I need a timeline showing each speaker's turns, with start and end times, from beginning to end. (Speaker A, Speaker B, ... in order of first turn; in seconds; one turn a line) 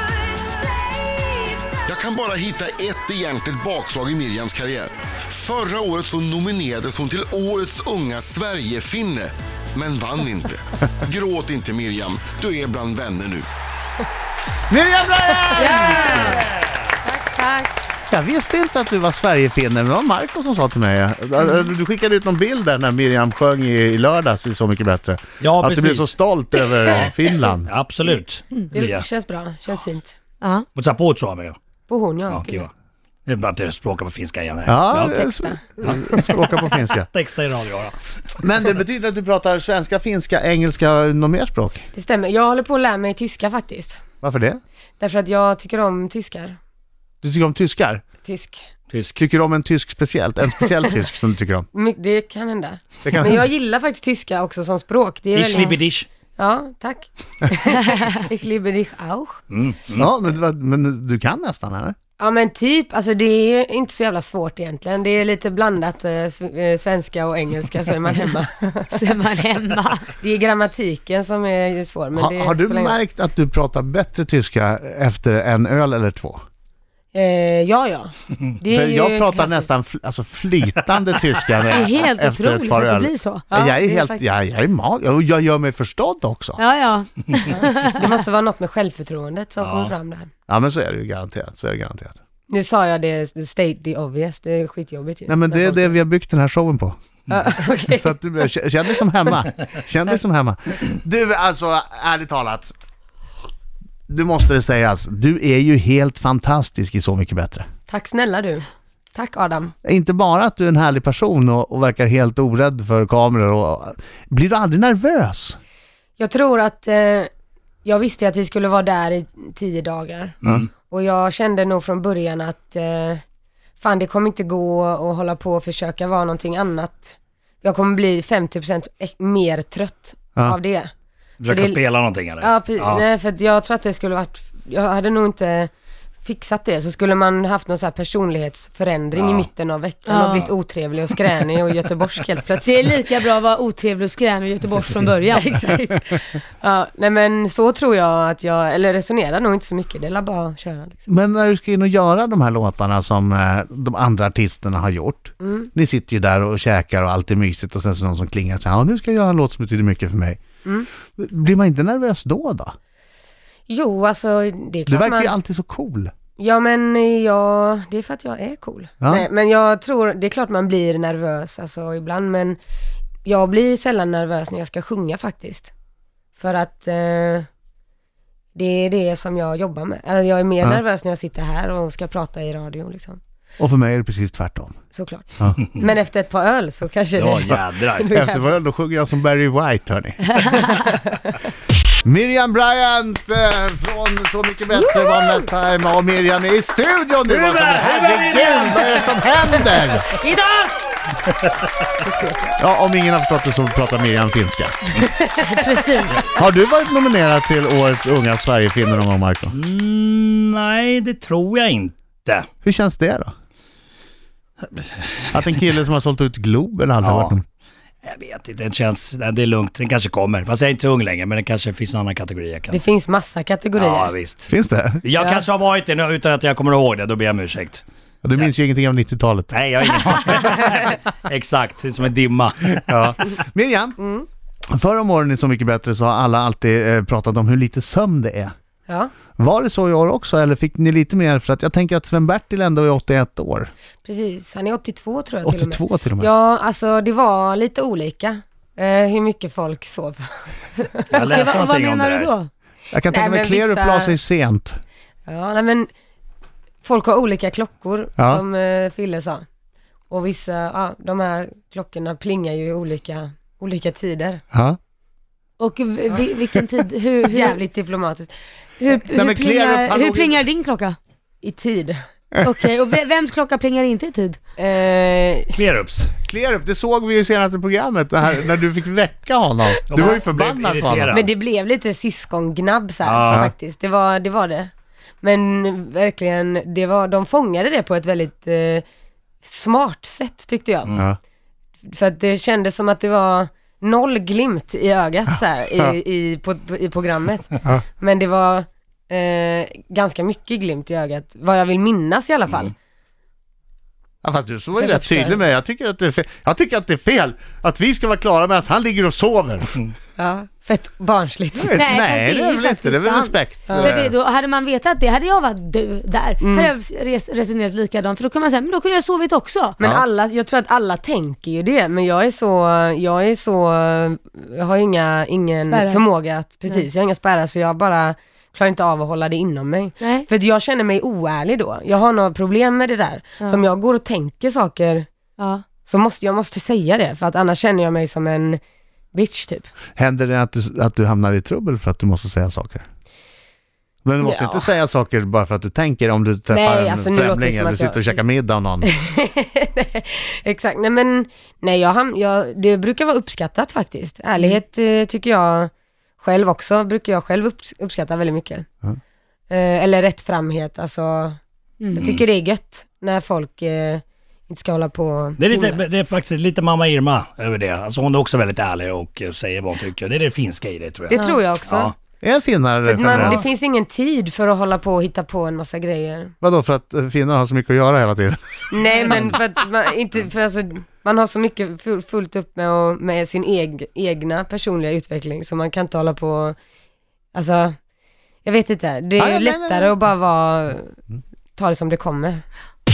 Speaker A: 1.8-13.5
Speaker B: 14.7-16.4
Speaker C: 15.5-16.5
Speaker D: 15.8-16.6
Speaker C: 17.0-17.8
Speaker B: 18.1-27.7
Speaker D: 25.4-26.1
Speaker D: 26.9-29.1
Speaker C: 28.7-30.2
Speaker E: 30.4-30.7
Speaker D: 30.8-31.6
Speaker C: 31.9-32.7
Speaker D: 32.3-32.7
Speaker D: 33.2-35.2
Speaker B: 34.7-37.1
Speaker C: 34.9-36.6
Speaker D: 37.1-38.0
Speaker B: 38.4-41.9
Speaker C: 41.9-44.0
Speaker B: 44.2-44.6
Speaker C: 45.0-46.6
Speaker B: 47.2-48.0
Speaker C: 48.2-48.6
Speaker D: 48.9-49.2
Speaker B: 49.2-51.7
Speaker C: 51.7-55.8
Speaker B: 53.0-53.4
Speaker D: 55.3-56.1
Speaker C: 56.4-59.4
Speaker D: 59.5-60.1
Speaker B: 60.0-62.0
Speaker C: 62.2-69.0
Speaker E: 68.9-70.1
Speaker C: 70.2-73.0
Speaker B: 72.1-76.4
Speaker C: 77.1-79.7
Speaker B: 78.7-86.6
Speaker E: 81.7-83.4
Speaker C: 83.5-84.2
Speaker E: 86.6-88.1
Speaker C: 87.5-90.3
Speaker D: 89.6-89.9
Speaker B: 90.5-92.2
Speaker C: 92.5-96.0
Speaker B: 95.3-97.0
Speaker C: 97.3-98.2
Speaker B: 97.8-102.7
Speaker B: 104.1-107.7
Speaker C: 107.9-109.7
Speaker B: 109.8-115.6
Speaker C: 116.2-117.3
Speaker C: 117.8-123.2
Speaker D: 120.4-120.7
Speaker C: 123.8-130.9
Speaker D: 131.4-133.0
Speaker C: 131.4-131.8
Speaker C: 132.4-135.7
Speaker C: 136.2-143.0
Speaker D: 139.1-139.5
Speaker E: 140.1-140.5
Speaker E: 142.6-145.7
Speaker C: 145.3-151.1
Speaker B: 151.1-160.4
Speaker C: 155.4-155.7
Speaker B: 161.1-162.8
Speaker C: 163.7-165.3
Speaker B: 164.9-166.1
Speaker C: 166.4-172.6
Speaker B: 169.0-169.2
Speaker C: 173.2-175.7
Speaker C: 176.4-177.5
Speaker C: 178.6-183.2
Speaker B: 183.6-184.8
Speaker C: 184.9-188.5
Speaker D: 187.2-188.1
Speaker B: 188.1-190.5
Speaker C: 190.6-191.2
Speaker B: 192.0-200.1
Speaker C: 194.7-195.5
Speaker D: 197.2-199.1
Speaker C: 199.5-200.8
Speaker C: 202.0-202.6
Speaker B: 202.6-204.8
Speaker C: 205.0-205.8
Speaker E: 205.4-206.2
Speaker B: 206.3-209.6
Speaker D: 209.5-212.5
Speaker B: 212.6-213.3
Speaker D: 214.7-215.3
Speaker B: 215.3-217.4
Speaker D: 217.0-217.4
Speaker D: 218.0-222.8
Speaker C: 222.7-224.1
Speaker D: 223.8-224.5
Speaker B: 224.5-225.0
Speaker D: 225.0-227.8
Speaker C: 225.2-225.4
Speaker B: 228.2-229.5
Speaker D: 229.5-233.0
Speaker B: 232.9-234.0
Speaker C: 234.0-234.3
Speaker B: 234.7-238.5
Speaker C: 238.9-239.1
Speaker B: 239.4-243.7
Speaker C: 244.0-251.6
Speaker B: 245.4-246.3
Speaker D: 251.1-252.3
Speaker E: 251.1-252.5
Speaker B: 252.9-254.8
Speaker C: 253.1-254.2
Speaker C: 255.2-255.9
Speaker C: 256.8-259.4
Speaker C: 260.1-264.4
Speaker B: 264.5-264.8
Speaker E: 265.6-267.6
Speaker C: 267.3-268.3
Speaker E: 268.8-271.0
Speaker B: 269.1-270.4
Speaker C: 271.4-272.0
Speaker E: 272.4-274.4
Speaker C: 274.6-275.5
Speaker D: 275.5-276.1
Speaker B: 276.3-281.2
Speaker D: 279.9-281.3
Speaker C: 281.1-288.8
Speaker D: 283.0-283.5
Speaker C: 289.4-290.9
Speaker C: 291.8-302.7
Speaker B: 304.2-309.8
Speaker C: 304.8-305.4
Speaker C: 310.2-311.8
Speaker B: 311.5-314.1
Speaker E: 311.7-319.8
Speaker C: 313.7-313.9
Speaker C: 316.4-316.7
Speaker C: 319.8-335.1
Speaker E: 325.7-326.0
Speaker E: 330.0-330.3
Speaker E: 335.4-335.6
Speaker C: 335.8-338.6
Speaker C: 339.1-339.7
Speaker B: 340.0-342.9
Speaker B: 344.0-348.9
Speaker C: 344.2-344.7
Speaker C: 346.5-348.2
Speaker C: 348.8-358.7
Speaker C: 359.5-361.4
Speaker C: 361.9-365.8
Speaker D: 365.4-371.9
Speaker C: 371.1-371.9
Speaker E: 371.1-371.4
Speaker B: 372.2-373.4
Speaker C: 372.8-376.3
Speaker B: 376.4-379.3
Speaker C: 378.7-386.6
Speaker C: 387.3-387.8
Speaker C: 388.4-391.0
Speaker B: 389.2-389.9
Speaker C: 391.5-392.4